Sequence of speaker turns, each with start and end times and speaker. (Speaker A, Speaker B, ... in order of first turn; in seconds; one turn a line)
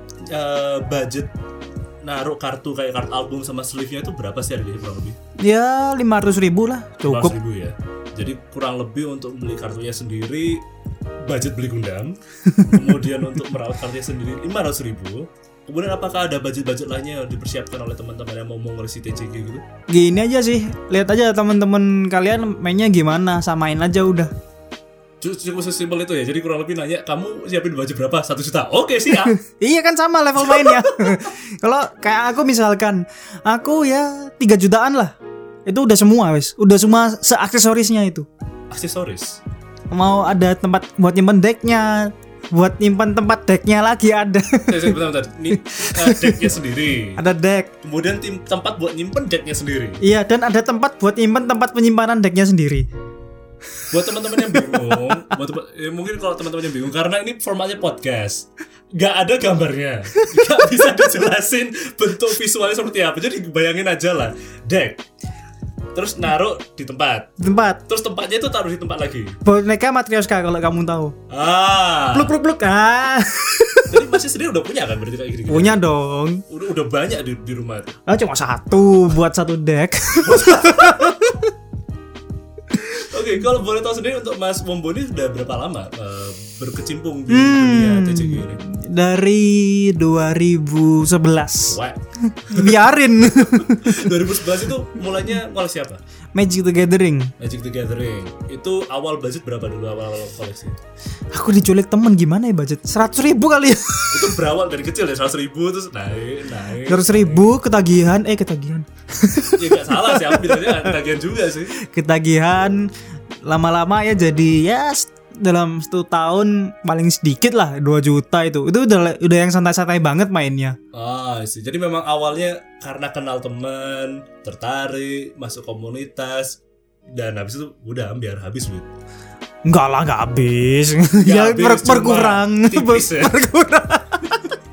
Speaker A: 0.3-1.3
Speaker A: 2.0-5.2
Speaker B: 5.4-7.4
Speaker A: 7.0-10.7
Speaker A: 11.2-19.6
Speaker B: 12.4-13.4
Speaker B: 19.9-24.3
Speaker A: 25.2-29.4
Speaker B: 29.4-35.1
Speaker A: 30.5-31.1
Speaker B: 35.7-38.3
Speaker A: 38.7-39.4
Speaker B: 39.9-45.0
Speaker A: 44.7-47.2
Speaker B: 45.5-46.5
Speaker B: 47.1-47.7
Speaker A: 47.8-50.0
Speaker B: 50.0-52.9
Speaker A: 53.9-65.0
Speaker B: 54.3-55.0
Speaker B: 60.2-60.5
Speaker A: 65.9-67.3
Speaker B: 67.4-67.8
Speaker A: 67.9-69.4
Speaker B: 69.4-71.2
Speaker A: 71.3-72.3
Speaker B: 72.1-73.9
Speaker A: 73.9-75.8
Speaker B: 75.5-76.4
Speaker A: 76.5-78.0
Speaker B: 78.1-81.5
Speaker A: 80.2-81.2
Speaker A: 82.9-88.6
Speaker B: 87.3-94.1
Speaker A: 91.7-96.0
Speaker B: 96.3-97.3
Speaker A: 97.4-100.8
Speaker B: 101.3-104.4
Speaker A: 104.1-107.6
Speaker B: 106.9-110.9
Speaker A: 109.6-111.7
Speaker B: 111.8-112.9
Speaker B: 113.5-120.8
Speaker A: 120.9-126.6
Speaker A: 127.1-128.9
Speaker B: 129.7-134.6
Speaker A: 131.2-133.4